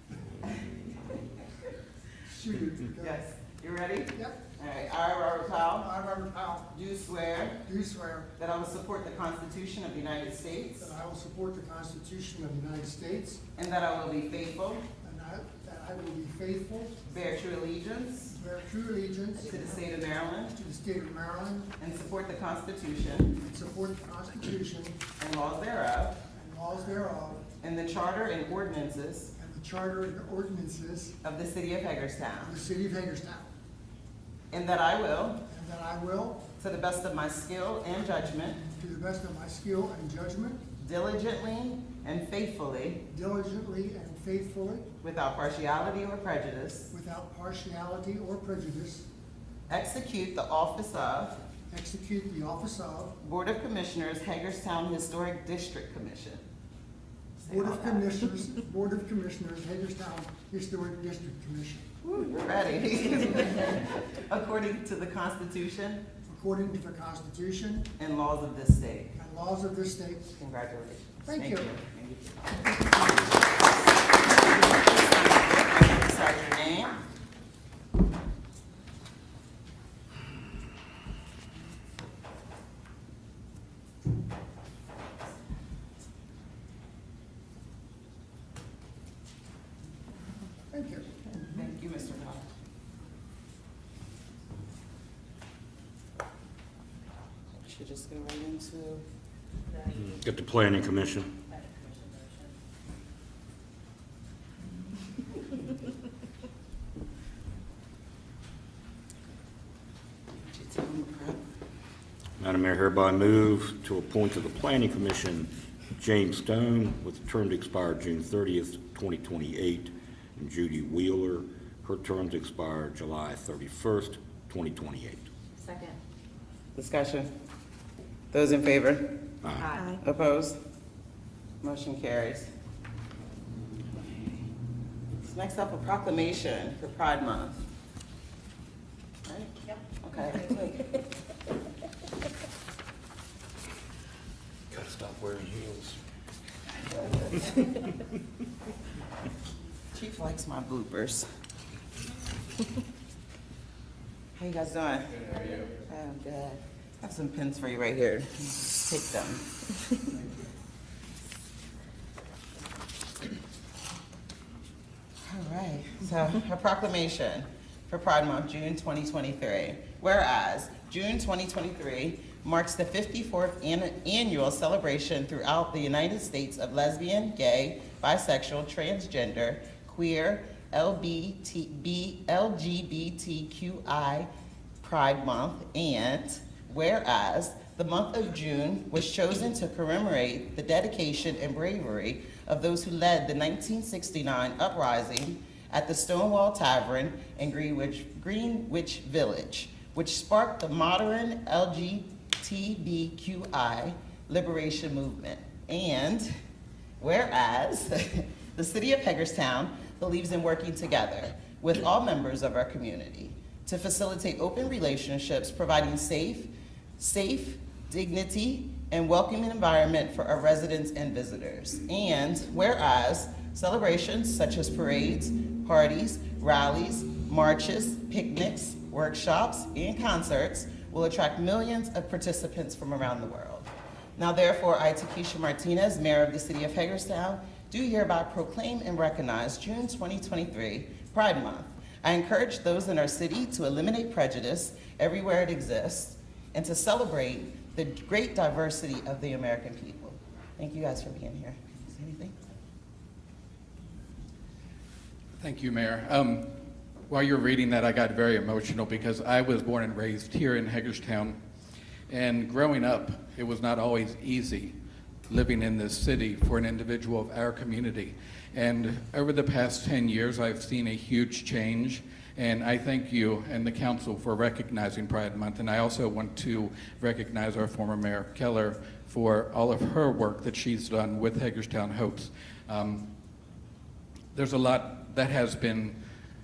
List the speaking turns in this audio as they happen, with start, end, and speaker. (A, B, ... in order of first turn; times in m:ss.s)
0:02.3-0:03.2 A
0:03.0-0:05.9 B
0:04.1-0:04.4 A
0:05.8-0:06.7 A
0:06.7-0:07.6 B
0:07.6-0:08.3 A
0:08.4-0:10.9 B
0:10.8-0:13.4 A
0:13.6-0:14.8 B
0:15.0-0:17.0 A
0:17.0-0:18.4 B
0:18.3-0:19.8 A
0:19.4-0:20.6 B
0:20.5-0:21.7 A
0:21.8-0:23.4 B
0:23.4-0:25.0 A
0:25.2-0:26.2 B
0:26.3-0:27.4 A
0:27.6-0:29.3 B
0:29.4-0:31.2 A
0:31.2-0:32.6 B
0:32.4-0:33.5 A
0:34.5-0:35.4 B
0:35.5-0:36.4 A
0:36.6-0:38.6 B
0:38.8-0:40.6 A
0:40.8-0:43.0 B
0:43.1-0:44.9 A
0:45.0-0:46.9 B
0:46.9-0:49.1 A
0:49.7-0:51.4 B
0:51.7-0:53.2 A
0:53.2-0:56.4 B
0:57.4-0:58.3 B
0:57.5-1:01.9 A
1:02.0-1:06.0 B
1:06.3-1:07.9 A
1:08.0-1:09.2 B
1:09.2-1:10.3 A
1:10.3-1:12.5 B
1:11.2-1:11.7 A
1:14.4-1:17.0 B
1:30.7-1:31.3 A
1:31.5-1:32.5 B
1:37.6-1:39.0 B
1:39.7-1:40.2 C
1:39.9-1:41.3 D
1:41.5-1:42.5 C
1:50.4-1:51.4 B
1:52.4-2:05.2 D
2:05.6-2:06.0 C
2:06.7-2:07.3 B
2:08.3-2:09.1 B
2:09.4-2:09.8 D
2:09.6-2:10.0 C
2:10.0-2:10.6 B
2:11.6-2:12.5 B
2:15.2-2:17.6 B
2:19.3-2:21.0 B
2:24.7-2:26.0 D
2:29.9-2:31.3 B
2:34.4-2:39.4 B
2:45.3-3:04.3 B
3:04.8-3:26.3 B
3:27.0-4:12.3 B
4:15.4-4:16.5 E
4:17.1-4:21.4 E
4:22.1-4:24.7 E
4:25.3-4:43.1 E
4:44.3-4:46.0 E